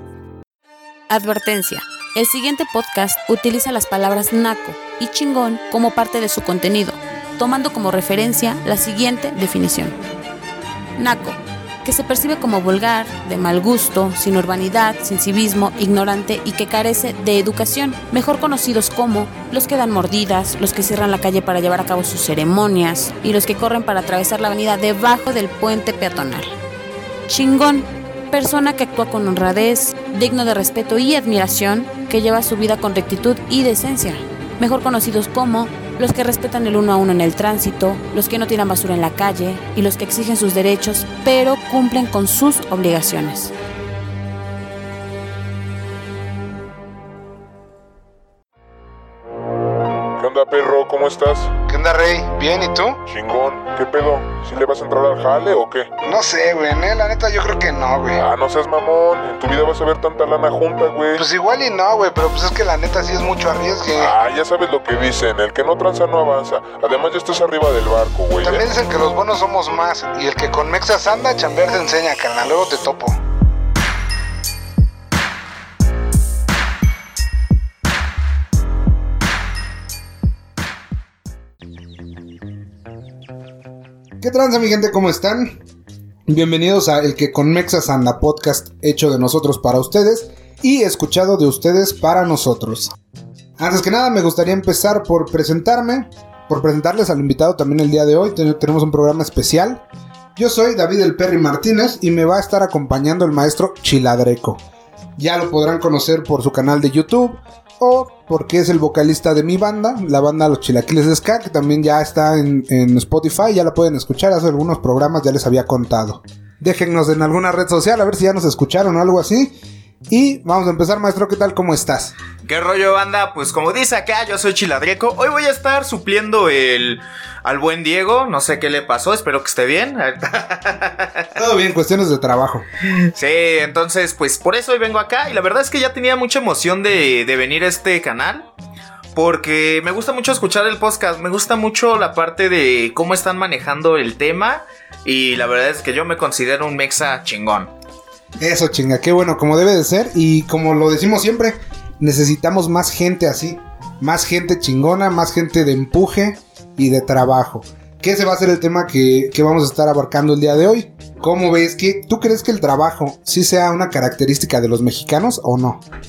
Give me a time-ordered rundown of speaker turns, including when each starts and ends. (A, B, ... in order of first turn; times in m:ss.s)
0:01.1-0:10.0 A
0:11.0-0:26.5 A
0:27.3-0:43.5 A
0:50.2-0:51.5 B
0:51.7-0:53.0 C
0:53.1-0:55.9 B
0:56.0-0:58.2 C
0:58.2-1:01.2 B
1:01.2-1:04.1 C
1:04.0-1:08.6 B
1:08.4-1:13.2 C
1:24.2-1:25.6 C
1:26.3-1:33.0 C
1:33.6-1:39.8 C
1:40.4-1:44.6 C
1:45.2-1:59.6 C
2:00.1-2:02.1 C
2:02.4-2:11.3 D
2:11.4-2:12.7 C
2:12.8-2:18.5 D
2:19.1-2:27.7 D
2:28.4-2:45.8 C